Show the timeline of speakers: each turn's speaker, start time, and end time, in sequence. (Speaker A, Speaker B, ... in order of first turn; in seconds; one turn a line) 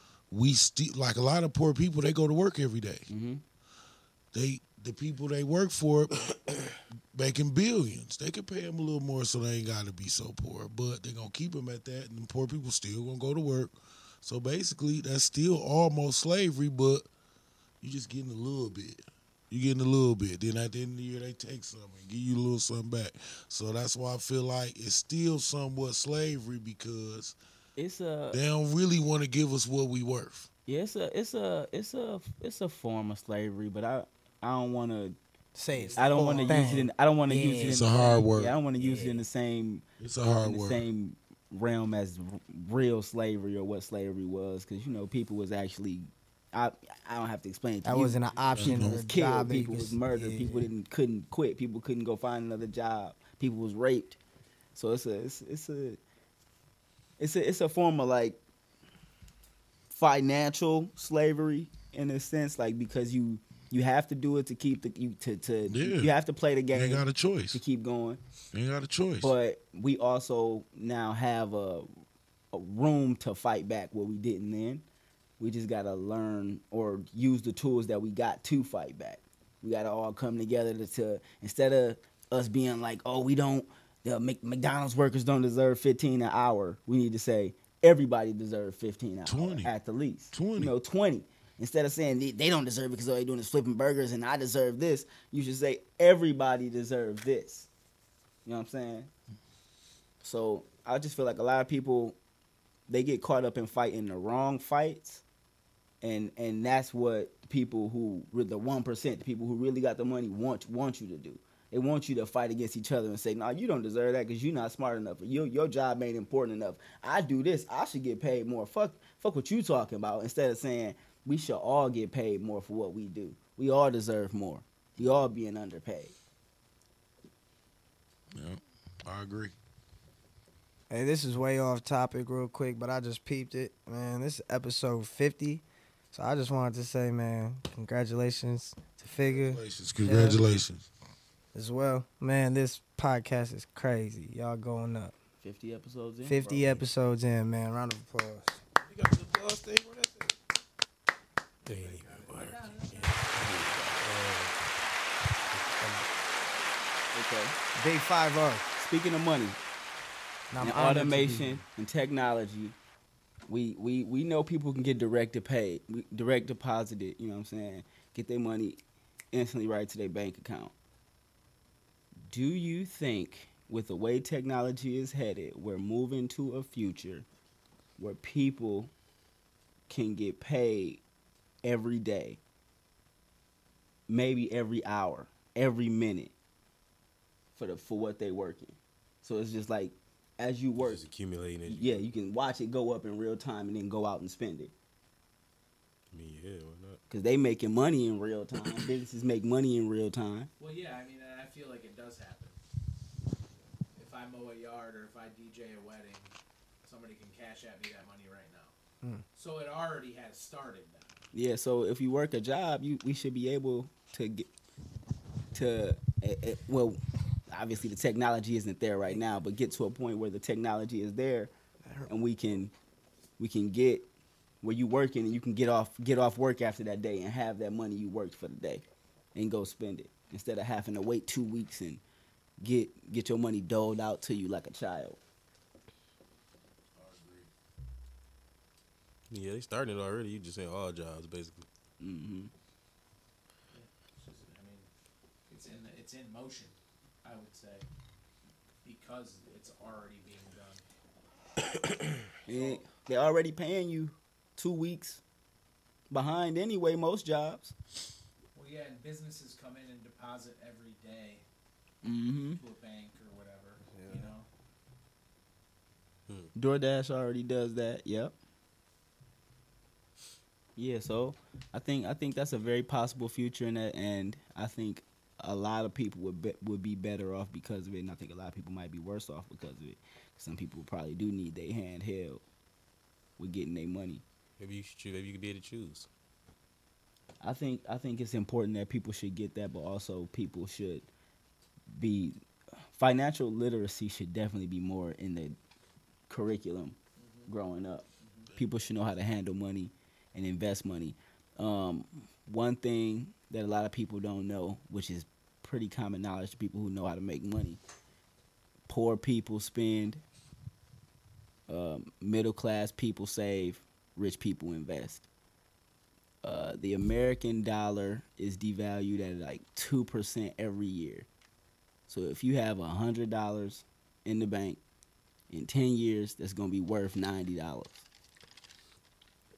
Speaker A: 0.3-3.1
Speaker B: 3.1-3.4
Speaker A: 4.3-17.1
Speaker A: 17.8-27.4
Speaker B: 27.8-28.4
Speaker A: 28.3-30.5
Speaker B: 30.6-35.1
Speaker C: 35.5-37.9
Speaker A: 35.9-36.7
Speaker B: 35.9-54.2
Speaker A: 37.5-38.6
Speaker C: 38.8-39.2
Speaker A: 40.0-40.9
Speaker C: 47.8-50.7
Speaker A: 48.3-49.2
Speaker B: 54.7-56.0
Speaker B: 57.2-58.4
Speaker B: 59.9-68.2
Speaker A: 65.7-66.1
Speaker A: 66.7-67.6
Speaker A: 68.5-69.3
Speaker B: 69.2-71.9
Speaker B: 72.5-74.8
Speaker B: 75.4-97.7
Speaker A: 89.2-89.7
Speaker A: 90.3-90.7
Speaker B: 98.4-99.1
Speaker B: 100.2-102.2
Speaker B: 102.9-105.2
Speaker B: 106.0-126.1
Speaker A: 128.3-129.5
Speaker C: 130.9-140.4
Speaker A: 139.2-140.9
Speaker C: 141.5-145.1
Speaker B: 145.4-146.8
Speaker C: 146.2-148.6
Speaker D: 148.8-150.3
Speaker D: 151.7-154.5
Speaker E: 151.7-153.4
Speaker D: 155.5-156.1
Speaker B: 157.1-157.5
Speaker C: 157.8-158.6
Speaker B: 158.8-159.6
Speaker C: 160.5-161.6
Speaker B: 160.6-162.7
Speaker B: 163.5-168.8
Speaker B: 169.3-170.7
Speaker B: 172.3-177.2
Speaker B: 178.0-178.9
Speaker B: 179.9-181.0
Speaker B: 181.6-182.4
Speaker B: 184.1-186.3
Speaker B: 187.6-191.0
Speaker D: 190.8-192.0
Speaker B: 191.7-194.7
Speaker D: 196.1-197.0
Speaker B: 197.1-200.5
Speaker E: 200.6-202.6
Speaker E: 203.9-206.3
Speaker E: 206.8-208.7
Speaker E: 209.3-211.1
Speaker B: 211.3-214.5
Speaker B: 215.5-221.5
Speaker B: 222.1-222.7
Speaker B: 223.4-224.1
Speaker B: 224.6-232.0
Speaker B: 232.6-235.2
Speaker A: 236.9-237.5
Speaker D: 239.3-241.6
Speaker B: 242.0-242.5
Speaker E: 243.7-244.9
Speaker E: 245.5-247.8
Speaker E: 248.8-250.8
Speaker B: 252.4-255.2
Speaker E: 252.5-252.8
Speaker B: 256.1-257.7
Speaker E: 258.5-261.4
Speaker B: 262.0-262.6
Speaker E: 262.5-264.5
Speaker B: 266.5-268.3
Speaker B: 270.8-282.4
Speaker B: 283.4-284.2
Speaker D: 284.6-286.1
Speaker B: 287.4-291.1
Speaker B: 291.9-292.4
Speaker B: 292.9-295.6
Speaker B: 296.3-297.0
Speaker E: 297.2-297.5
Speaker B: 297.5-307.8
Speaker E: 298.2-298.5
Speaker B: 308.9-310.2
Speaker B: 311.7-315.2
Speaker B: 316.4-321.3
Speaker B: 322.1-324.8
Speaker B: 325.5-328.0